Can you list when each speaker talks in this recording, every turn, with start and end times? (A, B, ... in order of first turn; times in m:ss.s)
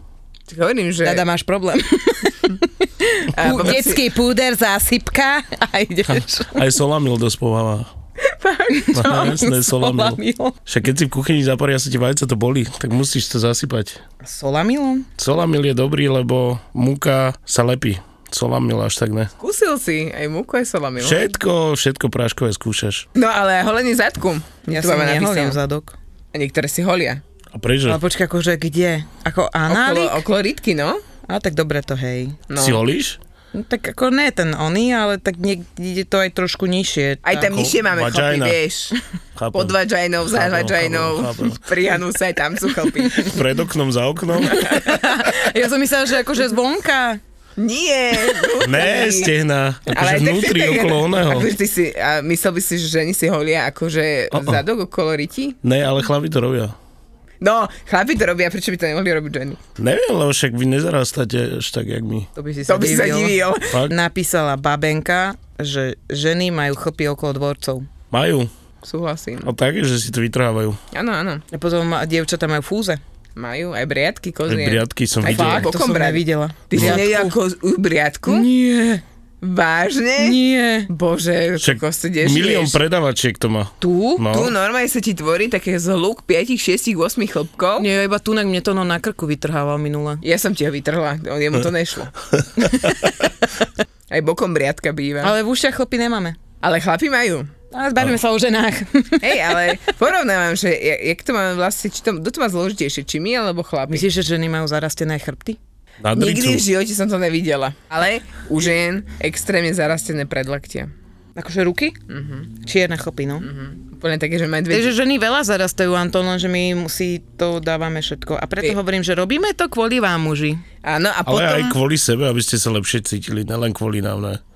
0:00.5-0:01.2 A
0:01.0-0:06.6 B
0:03.4-0:04.0 A
0:06.5-0:07.9 C
0:08.4-0:09.2 A
0:08.7-0:10.5 B
0:08.9-0:14.0 C
0:14.2-0:15.1 B
0:15.2-0:19.3 C
0:19.4-0:21.2 A
0:21.0-0:23.0 C
0:23.2-0:25.6 A
0:24.7-0:26.0 B
0:26.3-0:27.2 A
0:27.5-0:28.0 C
0:27.9-0:30.2 B
0:29.7-0:31.0 A
0:31.3-0:32.4 B
0:32.5-0:32.8 A
0:32.6-0:33.2 C
0:33.5-0:37.4 B
0:37.2-0:39.0 A
0:37.4-0:38.6 C
0:39.4-0:39.8 C
0:39.5-0:43.4 A
0:40.3-0:41.6 C
0:43.2-0:44.8 C
0:44.5-0:47.2 B
0:47.6-0:49.3 A
0:48.6-0:51.5 C
0:49.9-0:55.6 A
0:54.3-0:54.6 C
0:55.6-0:56.7 C
0:57.4-0:59.6 A
0:59.8-1:02.3 C
1:02.4-1:07.9 B
1:02.7-1:03.7 A
1:08.1-1:08.5 C
1:08.8-1:09.5 A
1:09.4-1:10.8 C
1:10.9-1:11.4 A
1:11.5-1:13.0 B
1:13.4-1:18.4 A
1:14.4-1:15.7 C
1:15.2-1:17.3 B
1:16.8-1:17.0 C
1:18.3-1:19.0 B
1:19.4-1:22.8 A
1:20.2-1:20.9 B
1:21.6-1:24.5 C
1:23.8-1:24.2 B
1:24.3-1:27.8 A
1:27.8-1:30.2 B
1:30.2-1:32.1 A
1:34.1-1:35.3 A
1:35.2-1:36.4 B
1:36.6-1:37.5 A
1:37.7-1:39.5 B
1:39.2-1:44.0 A
1:43.9-1:45.6 B
1:46.0-1:46.6 C
1:46.1-1:50.9 A
1:51.4-1:52.0 B
1:52.1-1:52.5 A
1:52.6-1:53.5 B
1:53.4-1:54.9 A
1:54.7-2:00.6 B
2:00.8-2:01.7 A
2:01.2-2:04.4 C